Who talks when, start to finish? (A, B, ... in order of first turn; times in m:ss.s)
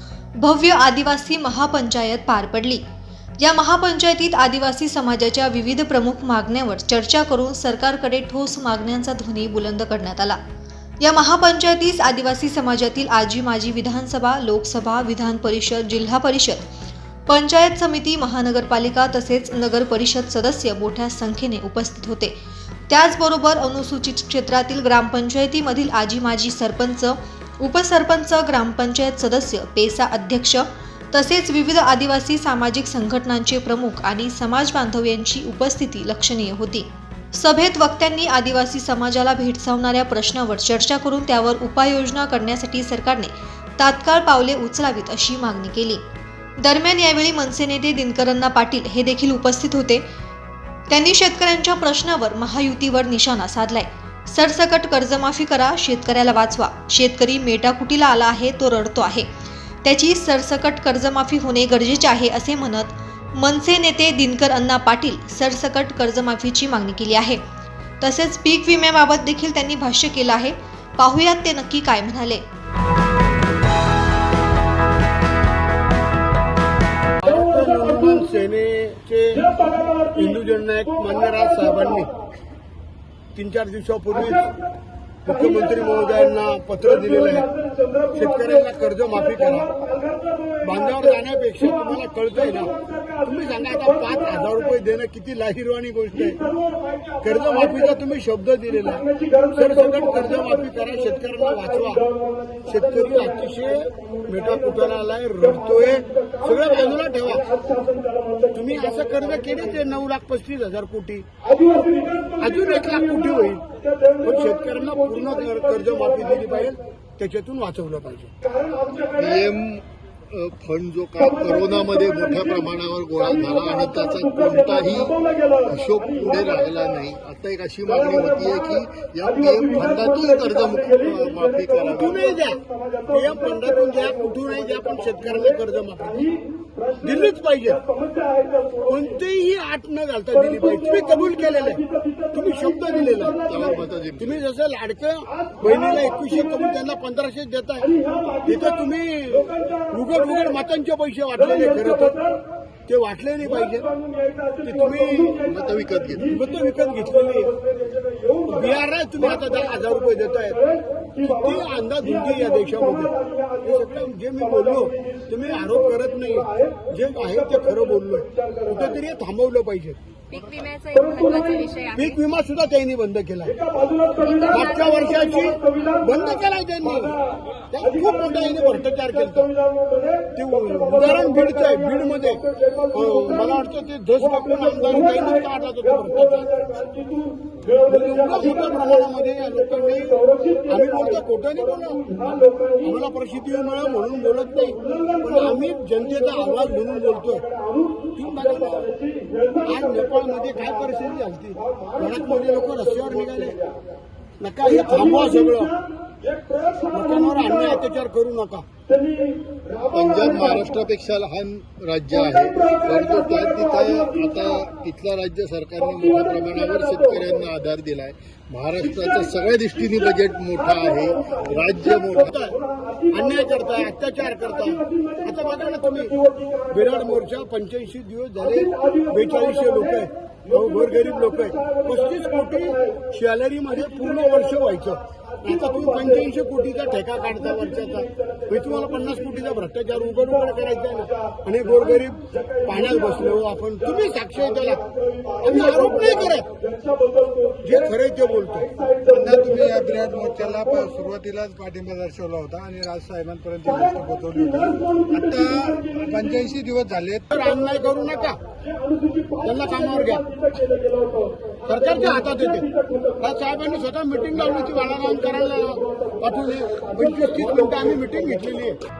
0:00.4-0:02.8 A
0:03.4-0:10.4 A
0:11.0-0:16.6 A
0:17.3-0:22.3 A
0:22.9-0:46.0 A
0:46.6-0:50.0 A
0:50.9-0:59.3 A
0:59.8-1:07.4 A
1:08.0-1:12.4 A
1:17.2-1:22.1 B
1:23.3-1:24.5 B
1:25.2-1:27.5 B
1:28.1-1:29.8 B
1:30.6-1:36.4 B
1:37.2-1:42.1 B
1:42.6-1:47.6 B
1:48.5-1:51.2 B
1:52.3-1:53.6 B
1:54.2-1:58.3 B
1:59.1-2:12.3 C
2:12.0-2:16.4 B
2:17.0-2:17.8 B
2:18.8-2:23.5 B
2:23.4-2:24.4 C
2:24.2-2:33.9 B
2:34.6-2:35.4 B
2:35.4-2:36.3 C
2:36.2-2:37.6 B
2:38.4-2:50.0 B
2:50.3-2:52.1 D
2:51.9-2:53.6 B
2:53.9-2:54.9 D
2:54.4-2:57.2 B
2:57.7-2:59.5 B
3:00.3-3:06.8 B
3:07.8-3:17.5 B
3:18.1-3:19.0 B
3:19.6-3:23.6 B
3:24.4-3:25.8 B
3:26.8-3:28.6 B
3:29.9-3:42.3 C
3:42.1-4:04.8 B
4:05.4-4:06.5 B
4:07.6-4:08.7 B
4:09.0-4:17.3 E
4:17.3-4:18.4 B
4:19.4-4:20.4 B
4:21.6-4:28.8 B